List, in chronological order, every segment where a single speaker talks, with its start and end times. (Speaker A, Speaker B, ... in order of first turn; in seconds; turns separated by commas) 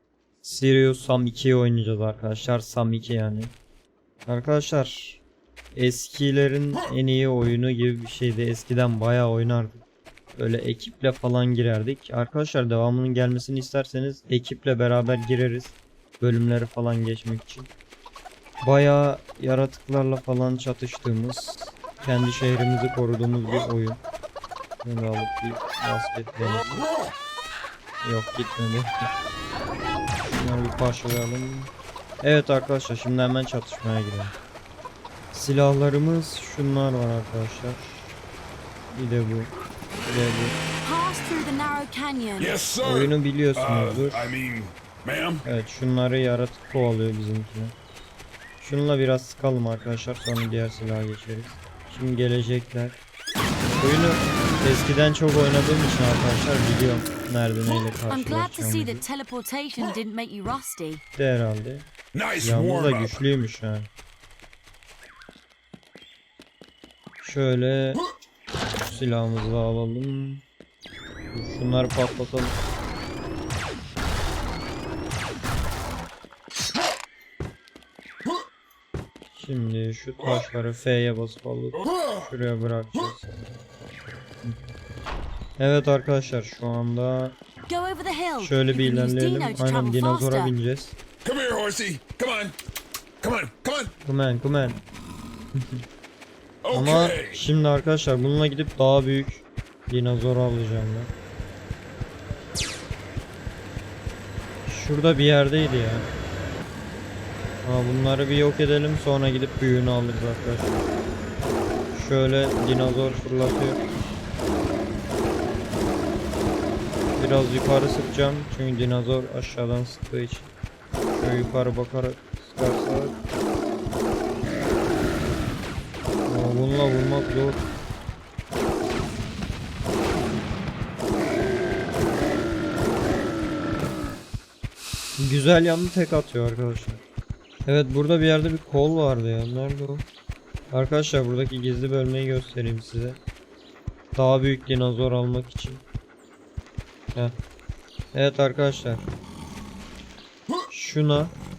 Speaker A: 0.4-3.5, Speaker A: 4.3-5.2, Speaker A: 5.7-9.8, Speaker A: 10.3-17.7, Speaker A: 18.6-24.0, Speaker A: 24.8-26.9, Speaker A: 28.0-29.1, Speaker A: 30.2-34.4, Speaker A: 35.3-38.1, Speaker A: 38.9-39.5, Speaker A: 40.1-40.6, Speaker B: 40.8-42.5, Speaker C: 42.4-45.5, Speaker A: 42.8-44.4, Speaker A: 45.5-47.8, Speaker A: 48.6-53.0, Speaker A: 53.8-59.0, Speaker B: 58.1-61.0, Speaker A: 61.2-61.9, Speaker C: 62.1-63.2, Speaker A: 62.4-63.9, Speaker A: 67.2-68.0, Speaker A: 68.8-70.4, Speaker A: 71.3-72.6, Speaker A: 79.3-83.5, Speaker C: 81.8-82.2, Speaker A: 84.4-84.7, Speaker A: 85.6-87.4, Speaker B: 87.7-90.5, Speaker A: 88.4-91.0, Speaker C: 91.2-92.6, Speaker C: 93.2-93.9, Speaker A: 94.0-94.8, Speaker A: 95.5-95.8, Speaker C: 96.6-97.4, Speaker A: 96.7-101.1, Speaker A: 104.7-106.1, Speaker A: 107.6-110.8, Speaker A: 111.9-113.8, Speaker A: 117.2-120.5, Speaker A: 121.1-123.2, Speaker A: 126.3-127.6, Speaker A: 135.2-137.0, Speaker A: 137.7-140.1, Speaker A: 140.7-143.2, Speaker A: 144.1-145.8, Speaker A: 148.1-149.1, Speaker A: 150.7-151.3